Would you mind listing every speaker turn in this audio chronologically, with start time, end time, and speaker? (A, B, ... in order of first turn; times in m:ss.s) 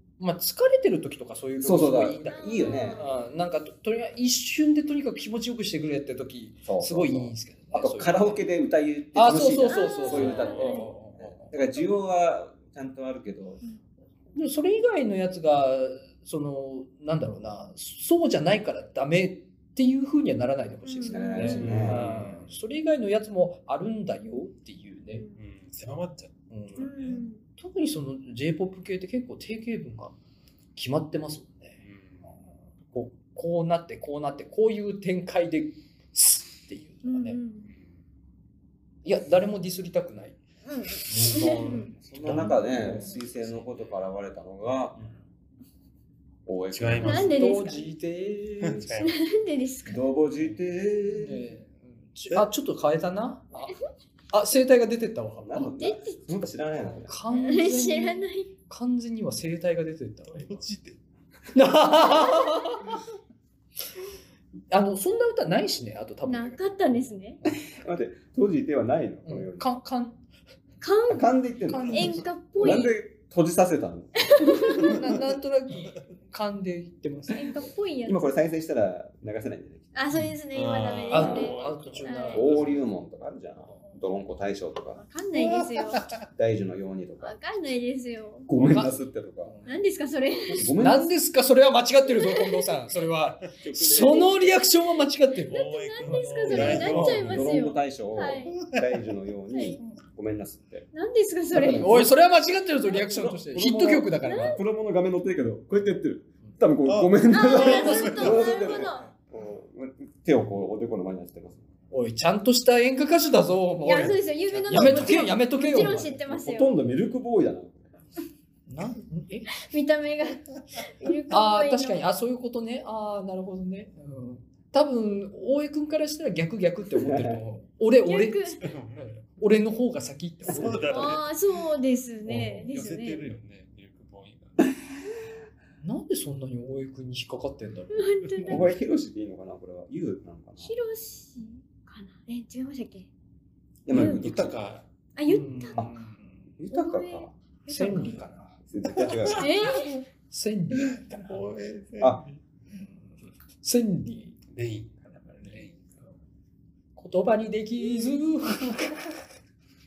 0:00.2-0:08.4 A
0:01.6-0:03.0 B
0:02.2-0:03.1 C
0:06.6-0:13.6 B
0:09.1-0:11.5 A
0:09.7-0:10.9 C
0:10.1-0:10.8 D
0:11.6-0:11.8 C
0:14.3-0:25.2 A
0:20.8-0:21.8 C
0:21.0-0:22.0 B
0:21.4-0:22.6 D
0:25.4-0:27.2 D
0:26.5-0:26.9 A
0:26.8-0:27.4 C
0:27.6-0:30.2 A
0:30.7-0:31.8 A
0:31.8-0:32.2 D
0:32.9-0:37.4 A
0:37.0-0:37.7 C
0:39.0-0:40.4 A
0:40.6-0:41.9 C
0:41.0-0:43.2 A
0:41.2-0:45.0 B
0:42.1-0:42.7 D
0:43.4-0:44.0 D
0:46.4-0:47.4 B
0:46.7-0:47.4 D
0:47.0-0:47.9 C
0:47.0-0:49.1 A
0:48.6-0:49.1 D
0:49.0-0:50.0 C
0:49.8-0:51.5 B
0:51.0-0:53.8 A
0:54.3-0:55.7 A
0:55.4-0:57.1 B
0:55.6-0:56.2 C
0:56.8-1:00.6 A
0:57.3-0:58.5 C
1:00.3-1:01.0 D
1:01.5-1:03.0 A
1:04.7-1:07.0 A
1:06.2-1:07.4 C
1:07.4-1:09.6 B
1:09.2-1:10.2 A
1:10.8-1:11.3 C
1:11.1-1:14.9 B
1:11.7-1:12.8 A
1:11.8-1:12.9 C
1:14.2-1:15.0 C
1:14.7-1:17.6 A
1:17.3-1:18.3 C
1:18.0-1:19.9 B
1:19.9-1:22.4 C
1:20.5-1:22.8 D
1:21.1-1:22.8 A
1:21.2-1:21.5 B
1:22.3-1:25.0 B
1:25.0-1:26.0 C
1:25.4-1:26.2 D
1:26.4-1:27.4 B
1:27.2-1:28.5 C
1:28.5-1:29.5 B
1:28.6-1:29.0 A
1:29.5-1:29.8 A
1:29.6-1:30.7 C
1:30.4-1:37.2 A
1:30.5-1:31.1 B
1:32.0-1:32.6 C
1:33.4-1:34.4 D
1:33.7-1:34.4 C
1:35.5-1:37.5 D
1:35.5-1:38.6 C
1:36.6-1:40.9 B
1:38.6-1:38.8 D
1:39.5-1:39.8 C
1:40.9-1:42.0 C
1:41.5-1:42.1 B
1:41.7-1:44.6 A
1:43.1-1:43.7 D
1:43.2-1:51.7 B
1:44.2-1:44.6 C
1:46.9-1:49.1 D
1:47.3-1:49.1 C
1:51.9-1:56.2 A
1:53.8-1:56.7 C
1:54.5-1:55.4 D
1:55.8-1:58.0 B
1:58.7-1:59.5 A
1:59.6-2:02.1 C
2:01.3-2:08.4 A
2:06.9-2:07.4 B
2:08.0-2:08.6 C
2:08.6-2:09.2 D
2:09.2-2:11.2 A
2:10.4-2:11.3 D
2:10.9-2:13.3 C
2:12.3-2:14.7 D
2:15.8-2:18.1 A
2:17.9-2:18.7 C
2:18.4-2:20.7 B
2:20.6-2:23.1 C
2:23.8-2:24.6 B
2:23.9-2:24.2 C
2:23.9-2:24.8 D
2:25.1-2:25.9 C
2:25.2-2:26.4 A
2:26.6-2:27.3 B
2:26.7-2:28.2 C
2:27.7-2:29.5 A
2:27.9-2:28.2 D
2:28.6-2:29.5 B
2:29.2-2:30.0 C
2:30.3-2:31.4 A
2:30.9-2:32.4 D
2:33.6-2:34.4 A
2:34.5-2:36.1 D
2:35.2-2:35.7 A
2:37.0-2:39.1 A